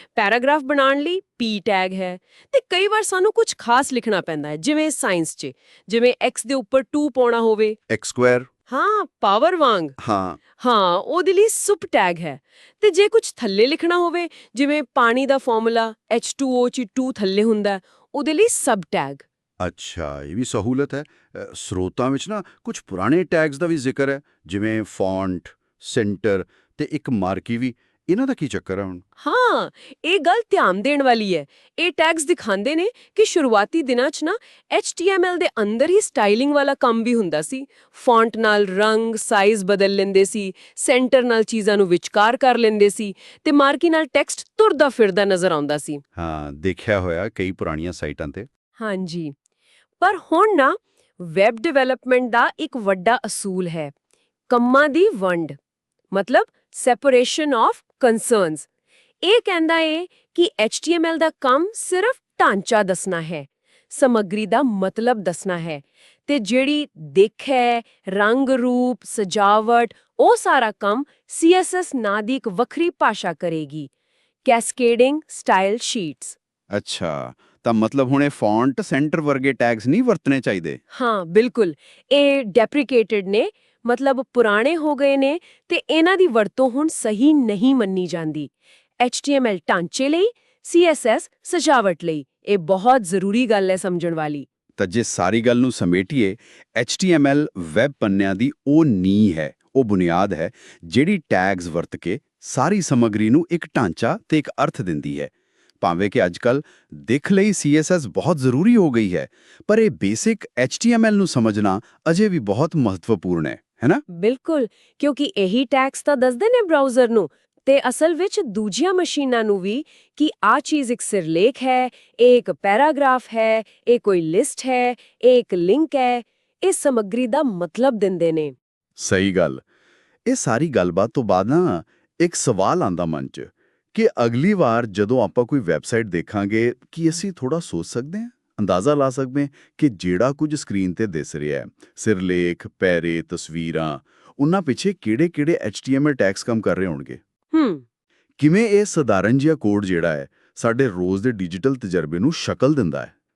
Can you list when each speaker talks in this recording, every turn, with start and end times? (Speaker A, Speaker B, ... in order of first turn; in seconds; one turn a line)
Speaker A: 0.1-7.8
Speaker B: 7.9-8.5
Speaker A: 8.7-9.9
Speaker B: 10.0-10.4
Speaker A: 10.6-19.2
Speaker B: 19.6-29.0
Speaker A: 29.2-46.0
Speaker B: 46.1-48.5
Speaker A: 48.8-49.3
Speaker A: 50.0-53.9
Speaker A: 54.5-55.5
Speaker A: 56.1-58.7
Speaker A: 59.2-73.9
Speaker A: 74.4-76.3
Speaker B: 76.7-80.8
Speaker A: 80.9-94.5
Speaker B: 94.8-114.0
Speaker A: 114.1-128.5
Speaker B: 129.0-129.6
Speaker B: 130.3-147.2
Speaker A: 147.5-147.8
Speaker B: 148.4-153.1